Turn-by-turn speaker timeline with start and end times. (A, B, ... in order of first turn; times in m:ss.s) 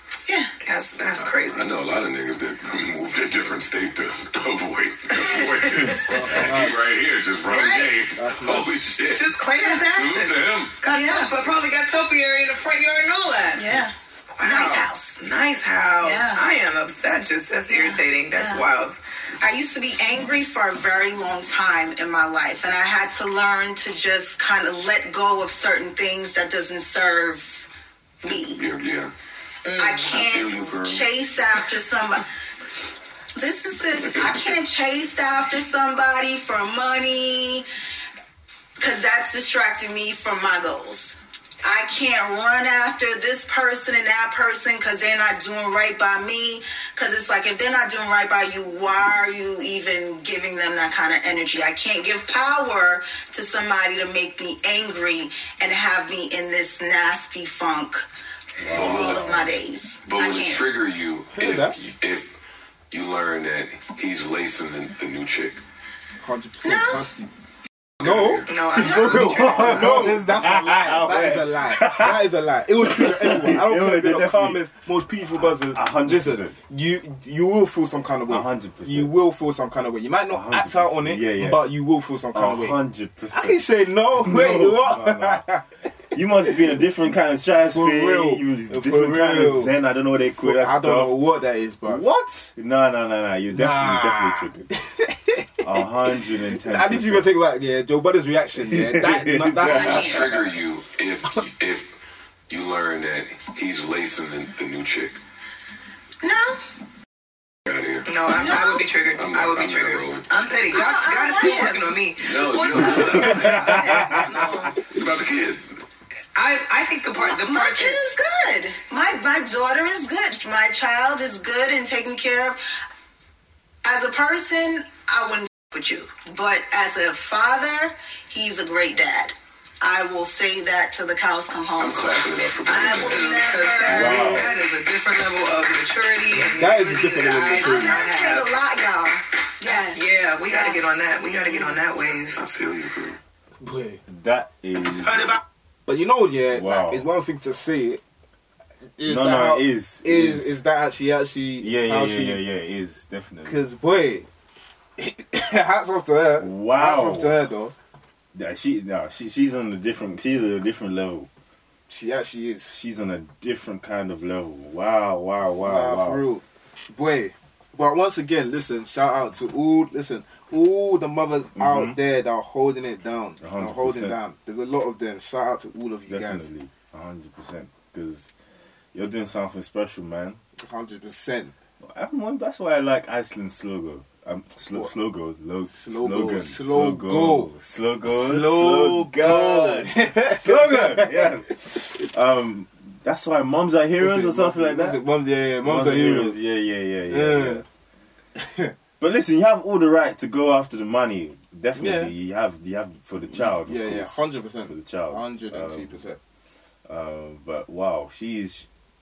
0:00.6-0:01.7 A
0:01.3-0:10.7 B
0:05.2-0:06.2 A
0:06.1-0:06.8 C
0:07.5-0:08.0 A
0:08.1-0:08.7 C
0:09.1-0:13.8 A
0:09.6-0:09.8 D
0:10.9-0:11.3 D
0:13.6-0:15.2 D
0:14.4-0:19.0 A
0:16.0-0:16.4 D
0:17.7-0:18.7 D
0:19.4-0:27.7 D
0:28.2-0:28.6 D
0:28.3-0:29.1 B
0:29.6-0:30.1 A
0:29.8-0:32.2 D
0:30.0-0:31.1 B
0:33.4-0:37.6 D
0:38.8-0:58.0 D
0:58.6-0:59.6 E
0:58.7-1:00.7 D
0:58.7-0:59.3 B
1:00.0-1:02.4 B
1:01.4-1:01.8 C
1:02.9-1:05.6 B
1:06.2-1:07.3 C
1:06.6-1:07.1 D
1:08.0-1:08.5 B
1:08.0-1:22.8 C
1:08.5-1:10.2 A
1:08.8-1:09.5 D
1:08.8-1:12.2 E
1:12.8-1:14.6 E
1:15.3-1:16.6 E
1:18.3-1:19.1 E
1:20.3-1:21.6 E
1:22.3-1:23.6 E
1:23.3-1:25.6 C
1:24.2-1:25.4 E
1:26.1-1:31.1 E
1:27.6-1:32.0 C
1:31.8-1:34.7 E
1:33.5-1:35.5 C
1:35.6-1:37.3 E
1:36.6-1:40.5 C
1:38.7-1:40.1 E
1:39.6-1:40.4 D
1:39.7-1:42.0 B
1:42.5-1:45.2 B
1:46.2-1:46.6 D
1:47.7-1:50.2 B
1:48.0-1:54.8 A
1:48.3-1:48.8 D
1:50.7-1:51.8 D
1:52.2-1:53.8 B
1:53.0-1:54.3 E
1:54.9-1:55.8 B
1:56.4-1:58.0 A
1:57.2-2:02.6 D
2:03.8-2:14.5 D
2:11.8-2:13.5 B
2:12.7-2:18.5 A
2:13.8-2:14.5 E
2:16.3-2:18.0 C
2:17.5-2:20.8 D
2:19.7-2:22.4 A
2:22.3-2:23.2 B
2:23.6-2:24.0 C
2:24.1-2:25.4 E
2:25.9-2:28.0 C
2:26.5-2:27.1 E
2:29.0-2:32.4 C
2:29.0-2:30.6 E
2:31.6-2:33.6 E
2:33.4-2:34.3 C
2:35.0-2:37.8 C
2:36.4-2:37.5 E
2:38.4-2:41.3 E
2:41.9-2:42.8 C
2:42.7-2:46.2 E
2:45.6-2:56.5 C
2:51.6-2:52.0 E
2:53.4-2:54.2 E
2:56.1-2:58.3 E
2:58.9-3:00.4 E
3:00.6-3:01.5 C
3:01.8-3:15.0 E
3:05.7-3:07.5 C
3:08.0-3:11.3 C
3:14.0-3:16.4 C
3:15.6-3:17.7 E
3:17.1-3:17.6 C
3:18.4-3:18.7 C
3:19.0-3:26.0 E
3:21.8-3:22.1 C
3:23.3-3:26.2 C
3:26.9-3:28.7 E